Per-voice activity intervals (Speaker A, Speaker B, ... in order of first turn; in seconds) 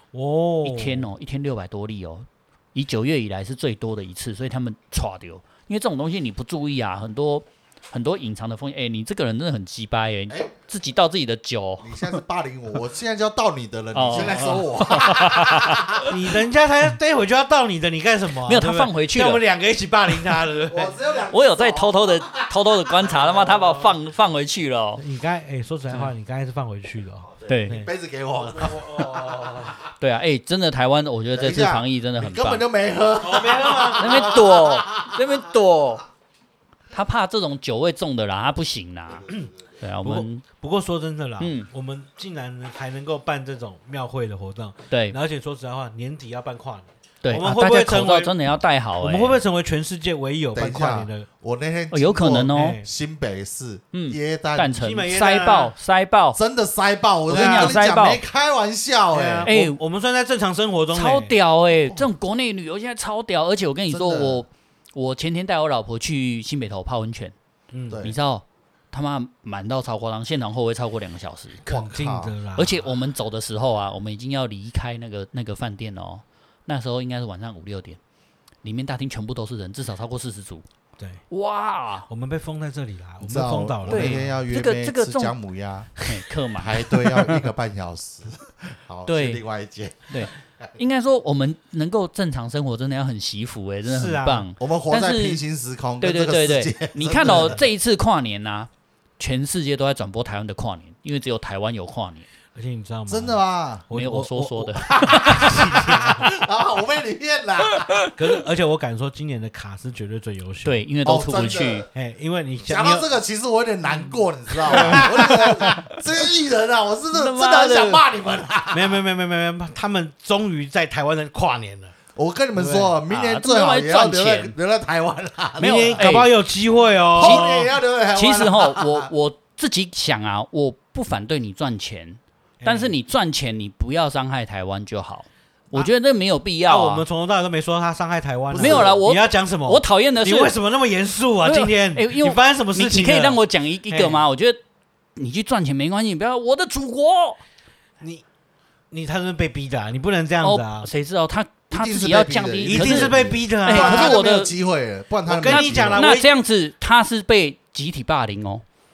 Speaker A: 0.1-1.1, 16.1-21.0, 25.0-27.9, 28.6-29.6, 33.2-34.3, 40.0-48.4, 49.0-51.3, 52.5-52.9, 54.8-55.7, 57.4-57.8, 59.1-61.3, 67.7-68.0, 71.7-72.9, 81.0-81.2, 82.1-84.4, 93.8-94.5, 97.2-97.6, 102.5-106.3, 108.2-110.8, 111.9-113.1, 114.7-115.6, 118.7-122.0, 122.6-123.0, 125.6-127.7, 132.6-133.0, 136.7-144.2, 148.9-150.9, 152.7-154.2, 155.3-156.4
Speaker B: 0.6-12.2, 13.9-16.1, 18.5-19.4, 21.3-25.0, 27.5-27.8, 30.0-32.6, 34.0-36.1, 36.9-40.4, 41.4-41.7, 44.9-45.2, 47.2-49.4, 51.9-52.8, 53.9-56.4, 57.3-58.2, 59.5-59.8, 60.9-67.3, 68.0-71.6, 72.5-78.0, 78.6-80.7, 81.3-82.1, 83.9-85.3, 86.0-87.2, 89.1-89.4, 90.1-95.4, 96.0-102.3, 103.9-105.6, 107.7-108.1, 110.7-111.9, 114.8-115.1, 117.1-118.0, 123.1-124.5, 125.6-126.3, 127.2-137.0, 138.6-140.6, 141.4-144.6, 145.2-147.4, 150.4-154.5, 155.5-158.6
Speaker C: 11.8-16.1, 20.7-23.8, 27.5-29.8, 31.3-35.2, 50.5-54.9, 56.4-59.5, 63.9-64.4, 67.9-68.2, 71.7-72.3, 83.2-85.9, 86.6-90.7, 94.6-97.6, 103.1-103.9, 104.9-108.0, 111.0-111.9, 112.7-119.0, 122.2-126.1, 127.2-129.1, 138.5-139.1, 151.7-156.1